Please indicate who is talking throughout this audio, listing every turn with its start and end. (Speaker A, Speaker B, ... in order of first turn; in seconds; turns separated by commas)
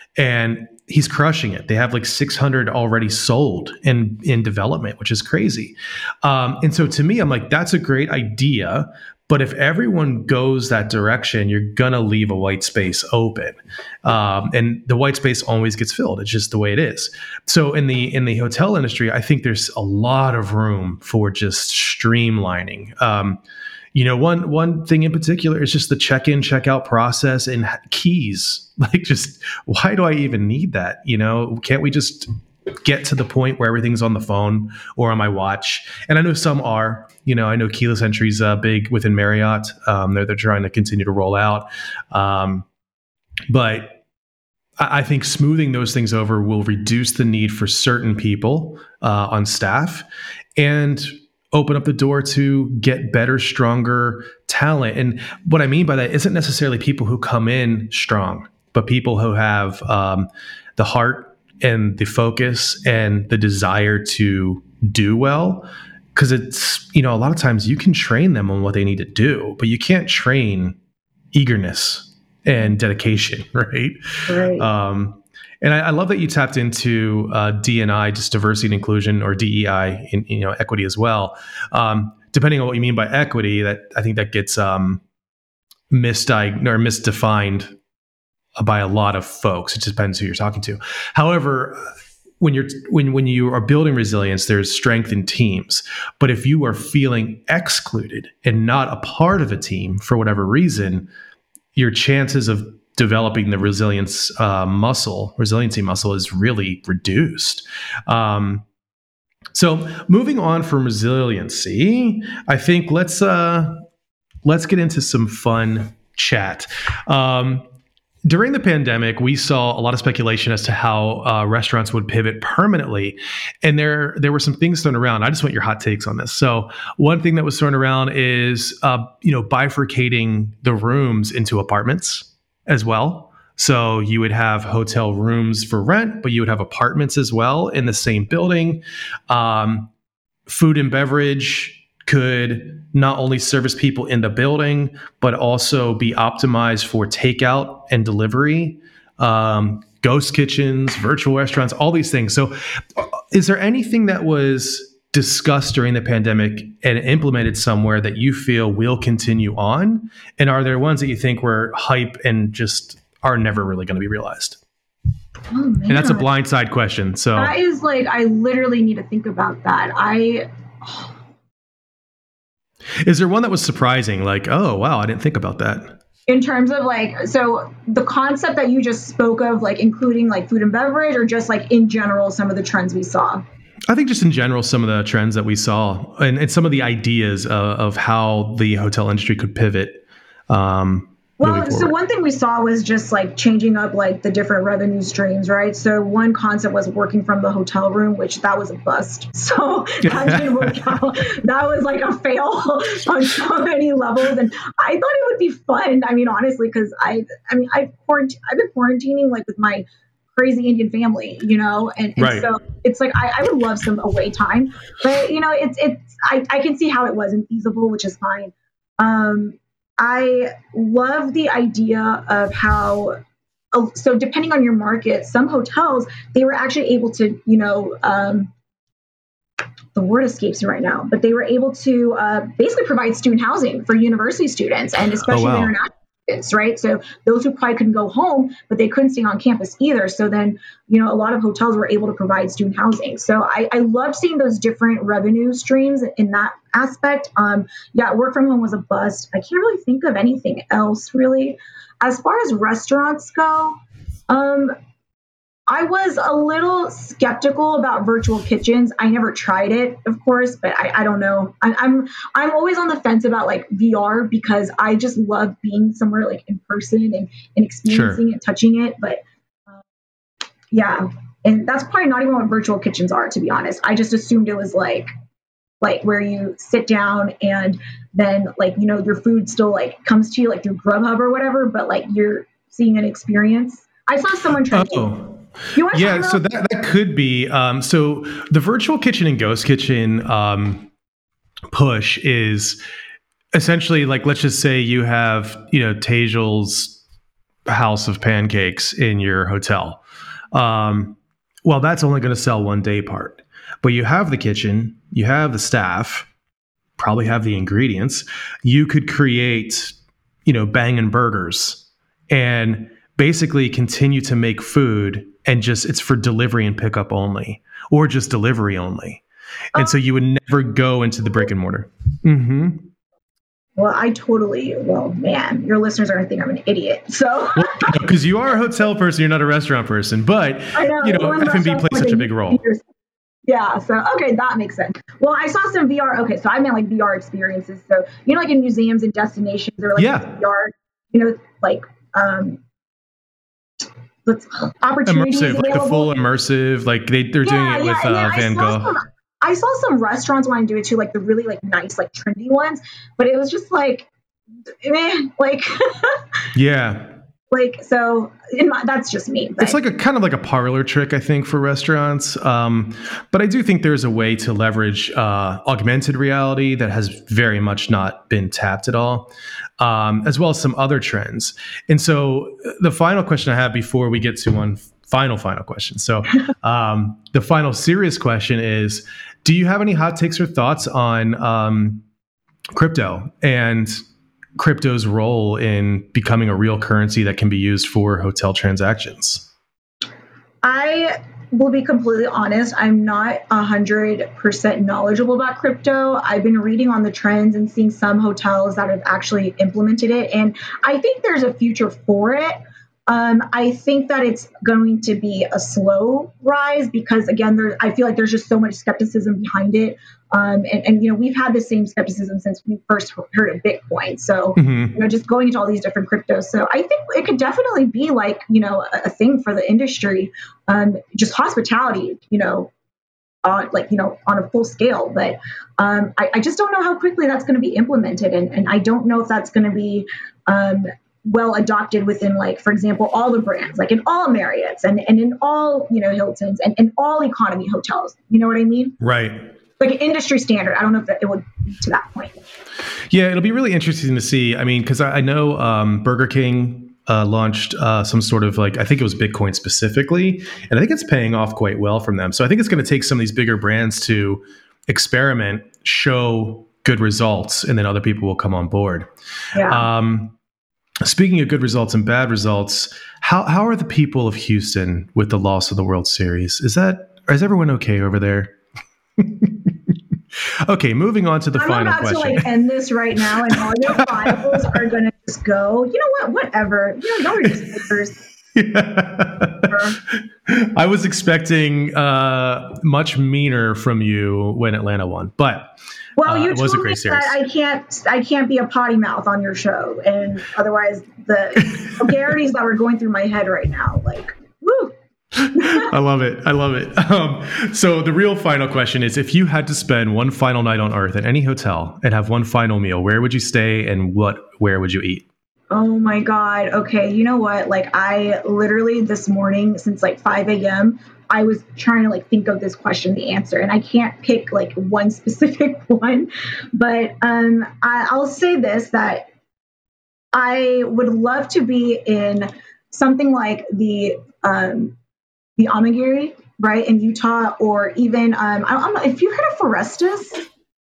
Speaker A: 0.2-23.4, Speaker A: 23.9-42.6, Speaker A: 43.5-44.0, Speaker A: 44.8-70.8, Speaker A: 71.3-74.0, Speaker B: 74.3-74.7, Speaker A: 74.6-85.0, Speaker A: 85.9-87.8, Speaker A: 88.6-101.1, Speaker A: 101.7-108.7, Speaker A: 109.5-113.8, Speaker A: 114.5-117.7, Speaker A: 118.2-139.9, Speaker A: 140.5-164.6, Speaker B: 165.5-166.2, Speaker A: 165.9-167.5, Speaker B: 167.4-171.1, Speaker A: 173.0-176.0, Speaker B: 176.3-183.4, Speaker A: 183.9-191.9, Speaker B: 191.4-223.2, Speaker A: 200.0-200.8, Speaker A: 212.2-212.5, Speaker B: 223.7-228.5, Speaker B: 229.9-254.7, Speaker A: 235.2-235.8, Speaker B: 255.7-269.2, Speaker A: 267.9-268.2, Speaker B: 270.7-275.1, Speaker B: 275.8-285.1, Speaker A: 284.7-290.9, Speaker B: 285.8-286.4, Speaker A: 291.7-292.8, Speaker A: 293.5-297.0, Speaker A: 297.7-300.0, Speaker A: 300.5-306.3, Speaker A: 307.0-322.9, Speaker B: 323.8-328.0, Speaker A: 327.6-332.6, Speaker B: 330.8-332.8, Speaker B: 333.5-342.6, Speaker A: 340.0-340.4, Speaker B: 344.2-346.1, Speaker A: 345.1-348.9, Speaker B: 347.4-354.1, Speaker B: 354.8-356.2, Speaker A: 356.5-357.1, Speaker B: 357.5-359.8, Speaker A: 359.6-382.0, Speaker A: 382.8-384.0, Speaker A: 384.6-389.5, Speaker B: 390.6-422.7, Speaker A: 414.6-415.0, Speaker B: 423.4-439.0, Speaker A: 439.0-439.5, Speaker B: 439.8-442.4, Speaker A: 443.1-459.1, Speaker B: 459.5-459.9, Speaker A: 459.7-460.4, Speaker A: 461.1-468.6, Speaker A: 469.2-469.7, Speaker A: 470.7-472.5, Speaker B: 471.6-478.2, Speaker A: 473.4-474.4, Speaker A: 477.4-477.7, Speaker A: 478.5-479.7, Speaker B: 479.7-480.0, Speaker A: 480.5-487.4, Speaker B: 486.2-494.9, Speaker A: 491.6-492.1, Speaker A: 495.4-505.3, Speaker B: 495.5-495.9, Speaker B: 505.7-519.3, Speaker B: 520.3-525.0, Speaker B: 525.6-530.4